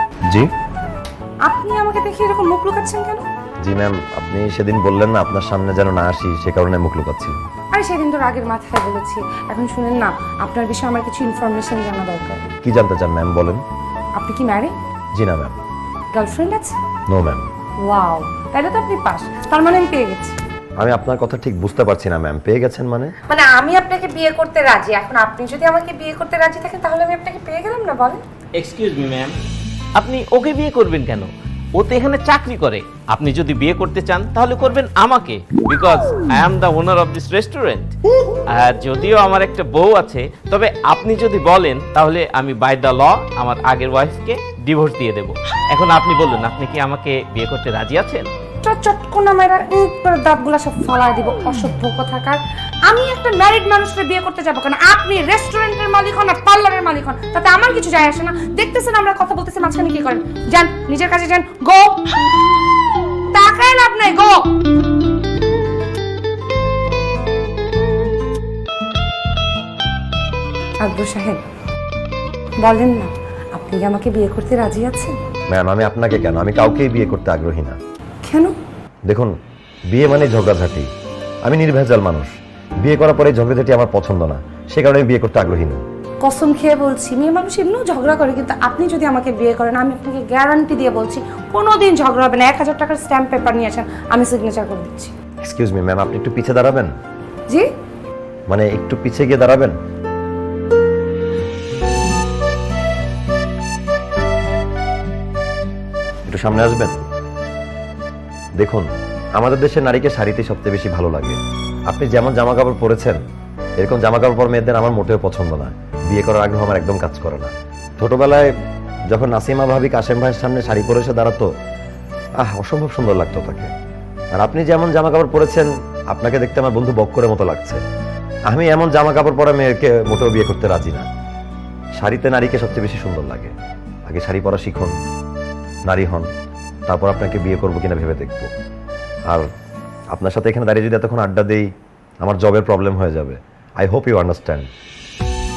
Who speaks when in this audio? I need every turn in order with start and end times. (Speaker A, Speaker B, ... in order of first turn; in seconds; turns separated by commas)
Speaker A: 1.4-3.2, Speaker B: 3.6-7.4, Speaker A: 7.7-12.5, Speaker B: 12.6-13.6, Speaker A: 14.2-14.8, Speaker B: 15.1-15.6, Speaker A: 16.1-16.8, Speaker B: 17.1-17.5, Speaker A: 17.8-20.4, Speaker B: 20.8-23.1, Speaker A: 23.3-28.2, Speaker C: 28.6-29.3, Speaker C: 30.0-37.9, Speaker C: 38.5-48.3, Speaker A: 48.6-62.0, Speaker A: 63.3-64.5, Speaker A: 70.8-71.4, Speaker A: 72.6-75.2, Speaker B: 75.5-77.8, Speaker A: 78.2-78.5, Speaker B: 79.1-79.3, Speaker B: 79.9-80.9, Speaker B: 81.4-85.8, Speaker A: 86.2-95.1, Speaker B: 95.4-96.9, Speaker B: 98.5-99.8, Speaker B: 106.3-107.0, Speaker B: 108.6-113.2, Speaker B: 113.8-118.5, Speaker B: 119.1-121.5, Speaker B: 122.4-123.7, Speaker B: 124.3-127.8, Speaker B: 128.5-131.1, Speaker B: 132.0-133.5, Speaker B: 134.1-134.9, Speaker B: 135.9-136.3, Speaker B: 136.9-138.5, Speaker B: 140.1-141.7, Speaker B: 142.2-144.7